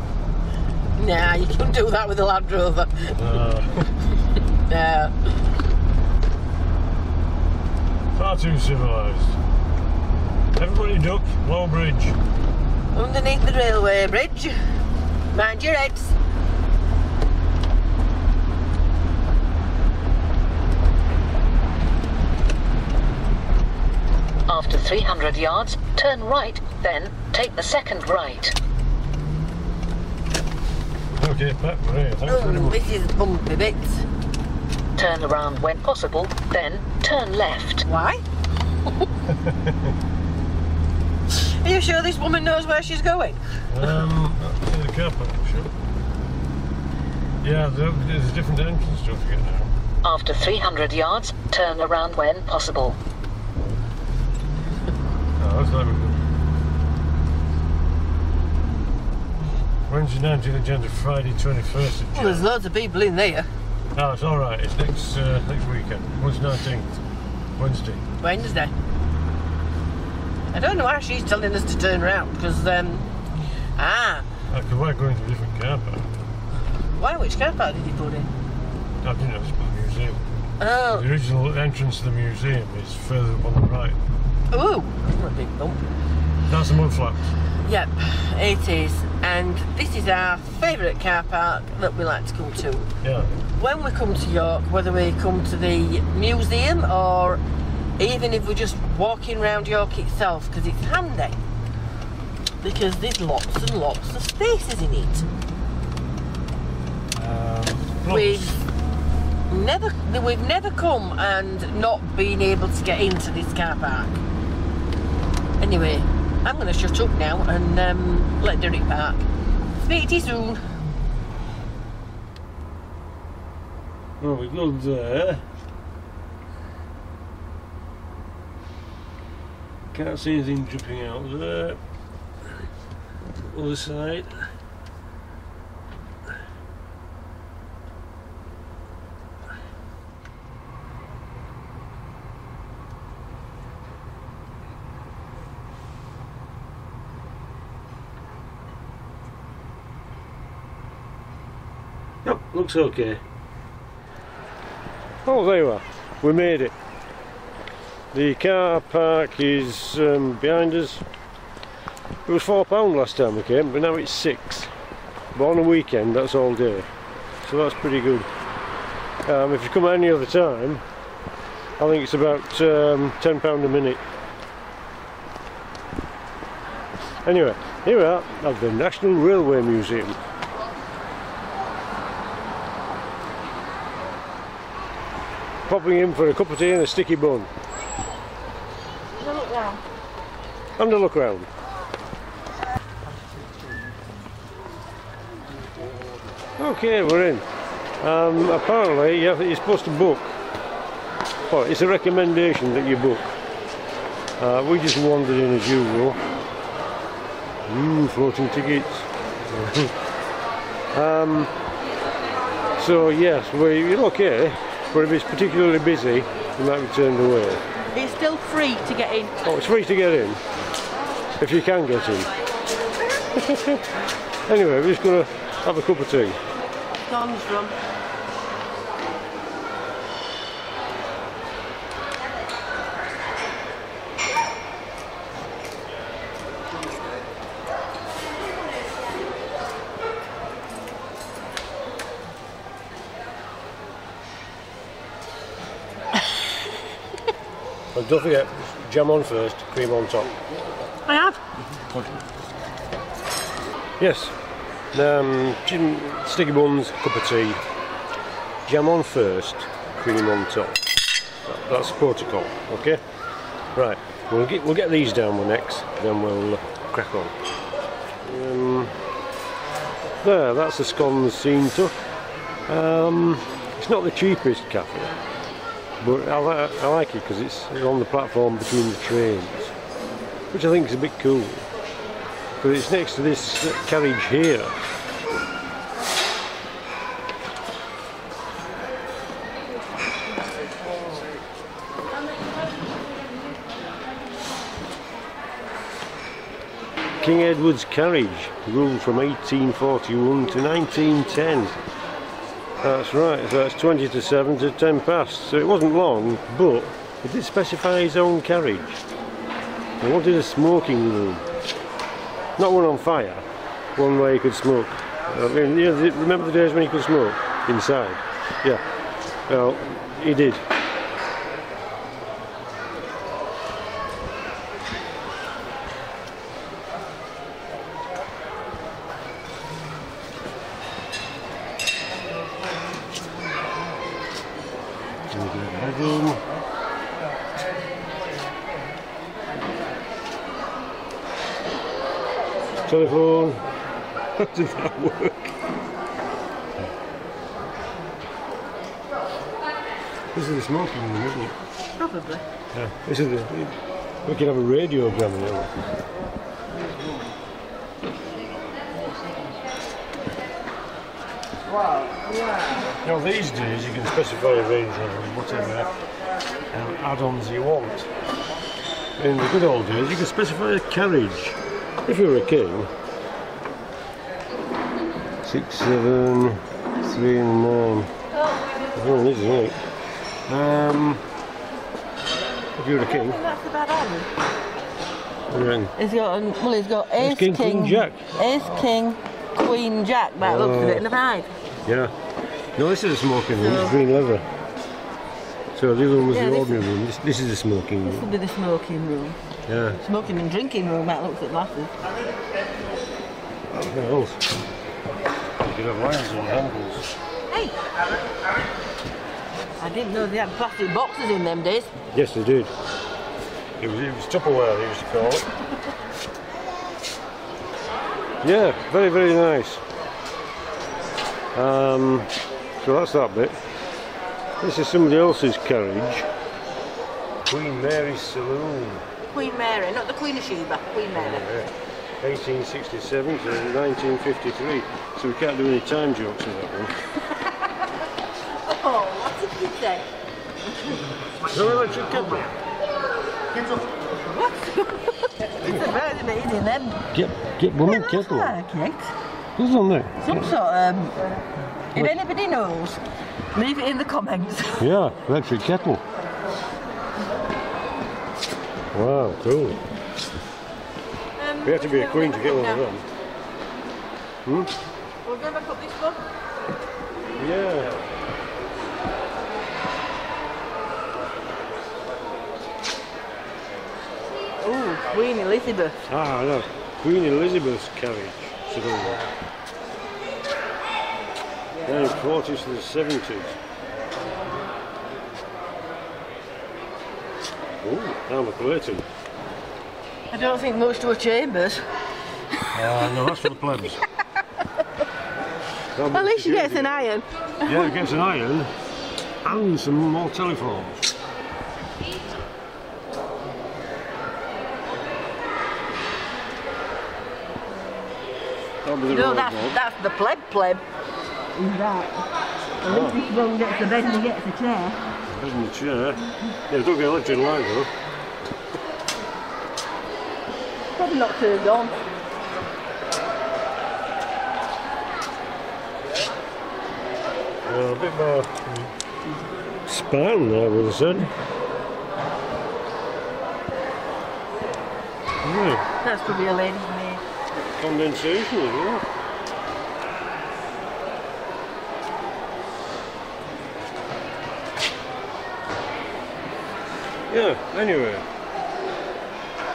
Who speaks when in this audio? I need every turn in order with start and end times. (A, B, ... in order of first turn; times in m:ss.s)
0:01.0-0:03.2 A
0:03.1-0:03.9 B
0:04.7-0:05.1 A
0:08.2-0:09.4 B
0:10.6-0:12.2 B
0:12.9-0:14.6 A
0:15.3-0:16.1 A
0:24.5-0:28.6 C
0:31.2-0:32.8 B
0:32.3-0:34.0 A
0:35.0-0:37.8 C
0:37.9-0:38.2 A
0:39.3-0:39.9 B
0:41.3-0:43.4 A
0:43.7-0:45.7 B
0:47.4-0:49.7 B
0:50.0-0:53.0 C
0:55.4-0:56.2 B
0:59.9-1:02.5 B
1:02.1-1:03.5 A
1:03.9-1:06.9 B
1:07.6-1:08.0 B
1:08.2-1:08.7 A
1:10.5-1:13.1 A
1:13.8-1:14.2 A
1:14.5-1:16.1 B
1:17.0-1:18.3 A
1:19.0-1:20.2 B
1:20.6-1:21.0 A
1:20.9-1:24.0 B
1:24.5-1:25.9 A
1:26.5-1:27.3 B
1:27.6-1:32.9 A
1:33.0-1:33.3 B
1:33.6-1:37.4 A
1:38.0-1:41.4 A
1:42.6-1:45.2 A
1:47.1-1:48.6 B
1:48.1-1:48.6 A
1:49.5-1:54.2 A
1:55.6-1:59.2 A
1:59.8-2:00.6 A
2:04.2-2:05.4 B
2:09.9-2:11.8 B
2:13.4-2:14.4 B
2:32.2-2:33.2 B
2:35.2-2:36.7 B
2:38.1-2:41.0 B
2:42.2-2:44.7 B
2:45.3-2:46.9 B
2:47.4-2:48.3 B
2:49.2-2:50.8 B
2:51.8-2:54.0 B
2:57.2-3:00.2 B
3:05.6-3:07.5 B
3:09.2-3:09.8 A
3:10.8-3:11.5 B
3:16.6-3:17.4 B
3:18.0-3:20.4 B
3:21.5-3:23.3 B
3:24.4-3:26.2 B
3:27.6-3:30.0 B
3:30.9-3:31.5 B
3:32.8-3:37.6 B
3:37.9-3:39.4 A
3:39.4-3:40.4 B
3:41.4-3:42.3 B
3:43.4-3:43.8 B
3:44.5-3:46.4 B
3:47.1-3:47.8 A
4:07.9-4:10.4 B
4:11.1-4:11.4 A
4:11.8-4:12.2 B
4:14.0-4:14.4 B
4:14.9-4:17.6 B
4:18.6-4:20.9 B
4:21.4-4:23.0 B
4:23.7-4:27.4 B
4:28.2-4:29.0 B
4:30.2-4:31.9 B
4:32.7-4:35.2 B
4:36.0-4:39.7 B
4:40.5-4:41.7 B
4:42.6-4:44.8 B
4:57.2-5:01.8 B
5:02.8-5:09.0 B
5:10.0-5:11.5 B
5:12.6-5:18.8 B
5:19.5-5:20.6 B
5:35.3-5:36.4 B
5:42.9-5:43.6 B
5:44.4-5:45.5 B
5:50.3-5:51.6 B
5:51.9-5:52.4 A
5:52.7-5:55.7 B
6:03.0-6:05.9 B
6:06.7-6:08.1 B
6:09.2-6:12.9 B
6:15.4-6:18.1 B
6:18.9-6:21.2 B
6:22.7-6:23.4 B
6:23.0-6:24.3 A
6:25.5-6:25.9 B
6:26.0-6:31.5 A
6:27.2-6:28.3 B
6:30.4-6:31.1 B
6:31.8-6:32.1 B
6:32.7-6:34.4 B
6:33.6-6:33.9 A
6:35.7-6:38.3 B
6:36.3-6:36.8 A
6:38.0-6:39.4 A
6:39.7-6:40.0 B
6:40.0-6:41.9 A
6:43.7-6:44.4 B
6:45.6-6:47.1 B
6:49.8-6:51.9 A
6:52.1-6:52.7 B
6:53.8-6:55.5 B
6:58.4-6:59.8 B
7:01.5-7:03.6 B
7:04.6-7:06.3 B
7:07.4-7:09.1 B
7:09.3-7:11.4 A
7:11.1-7:16.9 B
7:18.6-7:20.1 A
7:21.4-7:22.5 B
7:23.6-7:27.0 A
7:27.1-7:28.6 B
7:27.8-7:29.1 A
7:29.6-7:30.4 B
7:30.2-7:31.4 A
7:31.9-7:33.0 A
7:33.5-7:34.9 A
7:34.8-7:36.0 B
7:38.9-7:39.8 B
7:41.4-7:42.8 A
7:41.6-7:43.1 B
7:44.4-7:44.7 B
7:45.2-7:46.2 A
7:47.4-7:48.1 B
7:54.6-7:56.0 A
7:56.1-7:59.2 B
8:01.8-8:03.6 B
8:07.8-8:09.1 B
8:10.3-8:11.9 A
8:12.6-8:13.3 A
8:12.7-8:14.0 B
8:15.9-8:17.0 B
8:16.1-8:17.9 A
8:17.6-8:18.7 B
8:19.4-8:21.1 B
8:28.8-8:29.8 B
8:29.1-8:30.8 A
8:31.6-8:32.2 A
8:32.8-8:35.0 A
8:32.9-8:33.2 B
8:35.3-8:37.9 B
8:40.9-8:42.0 A
8:47.6-8:48.9 B
8:49.9-8:51.3 B
8:55.4-8:55.9 B
8:56.0-8:57.2 A
8:57.7-8:59.0 B
9:07.3-9:08.2 B